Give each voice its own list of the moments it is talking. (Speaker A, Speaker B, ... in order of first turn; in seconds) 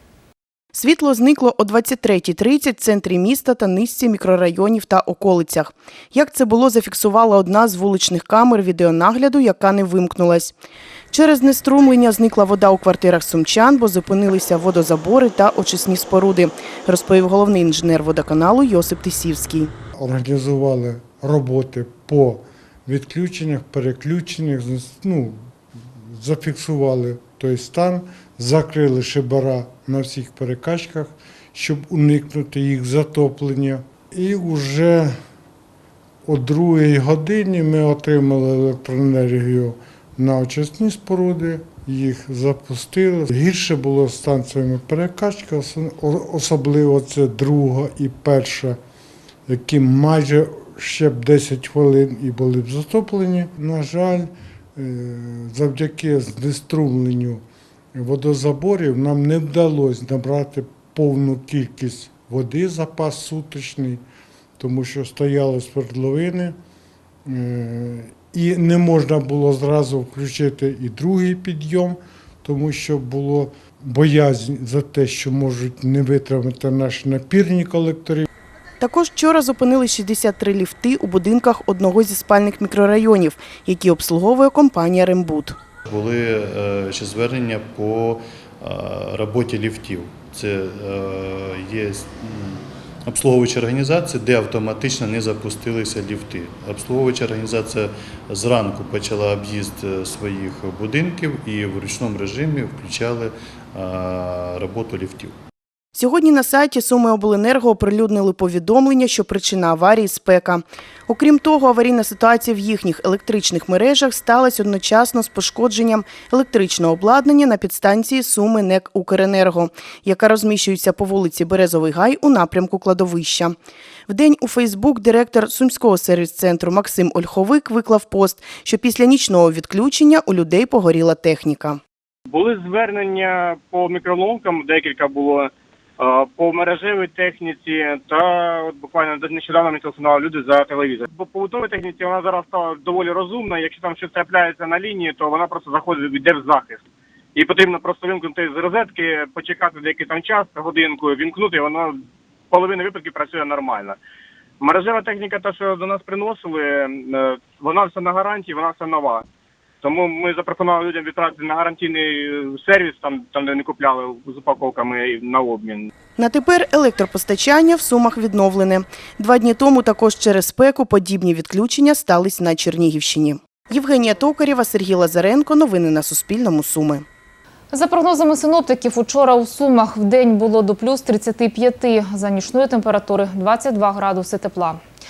Speaker A: 0.7-10.5, 11.1-19.7, 78.8-85.6, 105.9-123.5, 124.1-131.8, 166.2-177.0
Speaker B: 20.0-25.4, 26.0-35.1, 36.2-48.8, 49.5-57.4, 57.9-64.0, 64.6-66.5, 67.2-78.3
Speaker C: 85.9-105.3
Speaker D: 132.3-146.8, 147.3-151.9, 152.5-154.0, 154.6-159.2, 159.8-165.9
Speaker E: 177.7-184.8